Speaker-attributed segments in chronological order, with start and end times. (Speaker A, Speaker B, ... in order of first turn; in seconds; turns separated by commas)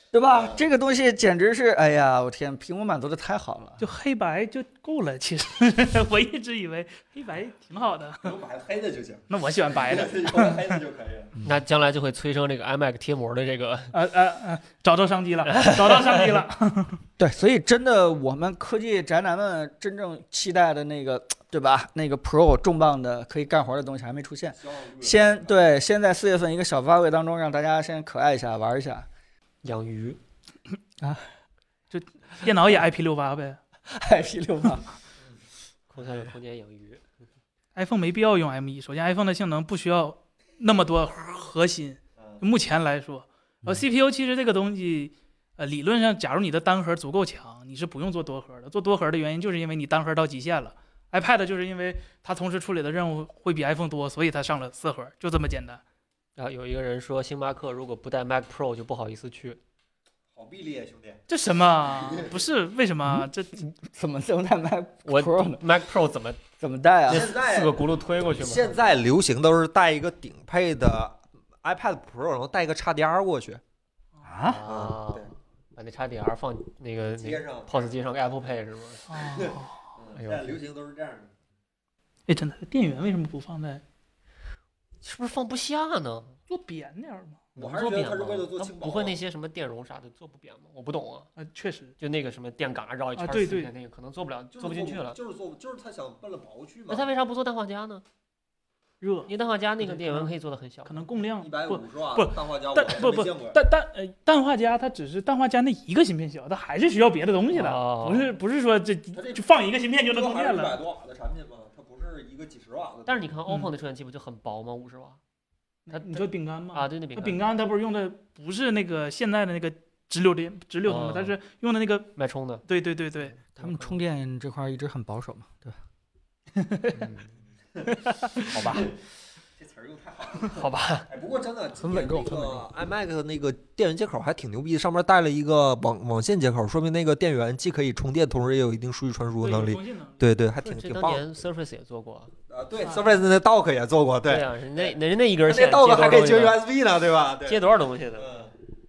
Speaker A: 0.1-3.8, Speaker B: 0.3-0.6, Speaker C: 3.8-8.3, Speaker B: 8.2-11.3, Speaker C: 9.3-10.8, Speaker D: 11.4-13.9, Speaker C: 13.9-17.0, Speaker D: 15.5-16.4, Speaker A: 17.2-29.1, Speaker B: 24.6-25.6, Speaker D: 29.6-30.2, Speaker A: 31.0-31.3, Speaker C: 31.9-33.6, Speaker A: 33.9-35.0, Speaker D: 35.9-37.0, Speaker C: 37.8-55.8, Speaker D: 56.4-59.6, Speaker B: 60.3-61.2, Speaker C: 61.3-63.6, Speaker B: 61.9-62.4, Speaker A: 63.0-65.6, Speaker D: 65.1-66.4, Speaker A: 66.6-67.3, Speaker D: 67.1-68.7, Speaker B: 67.1-73.6, Speaker A: 74.2-74.6, Speaker D: 74.5-79.2, Speaker B: 74.7-75.3, Speaker B: 77.1-77.9, Speaker C: 79.1-79.8, Speaker B: 79.3-81.3, Speaker D: 80.2-80.5, Speaker C: 82.3-83.8, Speaker D: 85.0-86.4, Speaker C: 86.5-87.4, Speaker B: 87.6-89.2, Speaker D: 87.6-91.3, Speaker C: 91.4-92.0, Speaker D: 92.0-95.2, Speaker C: 93.2-93.7, Speaker B: 94.5-97.1, Speaker D: 96.9-98.0, Speaker C: 99.0-100.3, Speaker D: 99.3-101.1, Speaker C: 100.8-110.8, Speaker B: 101.4-103.6, Speaker D: 107.5-108.3, Speaker B: 109.1-109.5, Speaker B: 110.0-113.2, Speaker D: 113.1-115.2, Speaker C: 115.9-122.1, Speaker D: 115.9-117.5, Speaker D: 120.8-121.4, Speaker D: 122.2-122.7, Speaker C: 122.7-123.3, Speaker D: 123.2-124.0, Speaker A: 123.6-125.8, Speaker C: 126.6-127.1, Speaker D: 127.0-127.3, Speaker C: 127.9-128.8, Speaker A: 128.5-128.8, Speaker B: 128.6-128.9, Speaker B: 129.6-141.2, Speaker D: 130.4-131.1, Speaker A: 131.8-132.7, Speaker C: 139.4-140.2, Speaker D: 140.6-142.3, Speaker B: 142.5-147.6, Speaker C: 142.8-143.1, Speaker D: 144.2-146.6, Speaker D: 147.5-148.4, Speaker B: 148.2-148.5